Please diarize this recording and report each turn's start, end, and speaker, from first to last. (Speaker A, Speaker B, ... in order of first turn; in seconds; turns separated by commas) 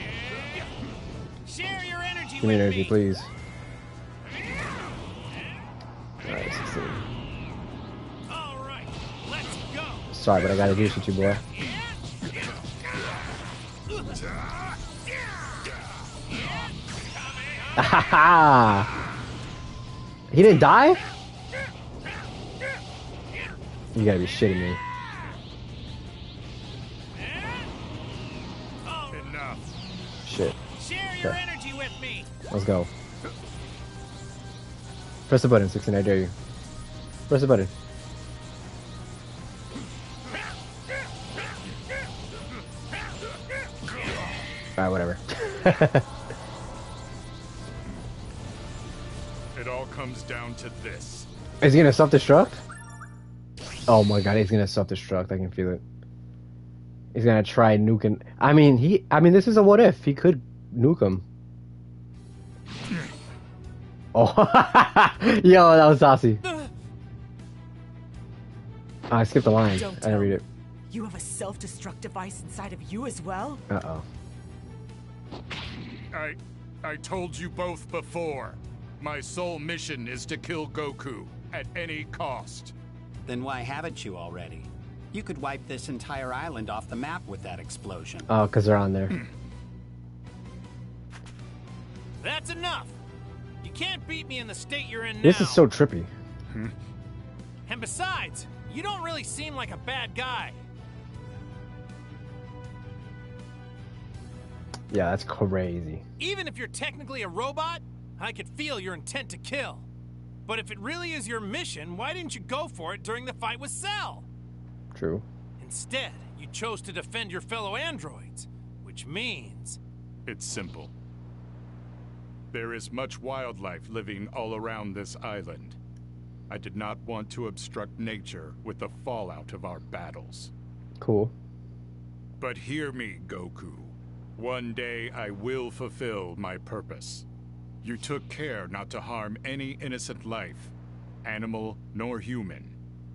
Speaker A: 1.4-3.0, Speaker B: 2.4-3.3, Speaker B: 6.2-7.0, Speaker A: 8.3-10.1, Speaker B: 10.1-11.4, Speaker A: 17.2-17.7, Speaker B: 17.8-18.9, Speaker B: 20.3-21.1, Speaker B: 23.9-24.8, Speaker A: 28.9-29.2, Speaker C: 29.1-29.6, Speaker B: 30.2-30.6, Speaker A: 30.8-32.3, Speaker B: 32.5-32.9, Speaker B: 35.3-36.3, Speaker B: 37.3-37.7, Speaker B: 44.8-46.1, Speaker C: 49.5-51.3, Speaker B: 51.6-52.6, Speaker B: 53.9-55.8, Speaker B: 57.1-61.2, Speaker B: 64.2-66.4, Speaker B: 69.1-70.4, Speaker D: 69.7-73.6, Speaker B: 73.7-74.0, Speaker C: 76.1-82.8, Speaker E: 83.3-88.3, Speaker B: 88.3-89.2, Speaker A: 92.2-93.0, Speaker A: 93.6-95.7, Speaker B: 95.2-96.1, Speaker A: 97.7-100.6, Speaker B: 104.9-106.0, Speaker A: 106.2-109.9, Speaker A: 110.5-114.2, Speaker B: 114.9-115.2, Speaker A: 115.6-119.8, Speaker C: 120.3-120.9, Speaker C: 122.5-125.8, Speaker C: 126.5-130.5, Speaker B: 131.0-131.3, Speaker C: 132.4-137.3, Speaker C: 137.8-142.8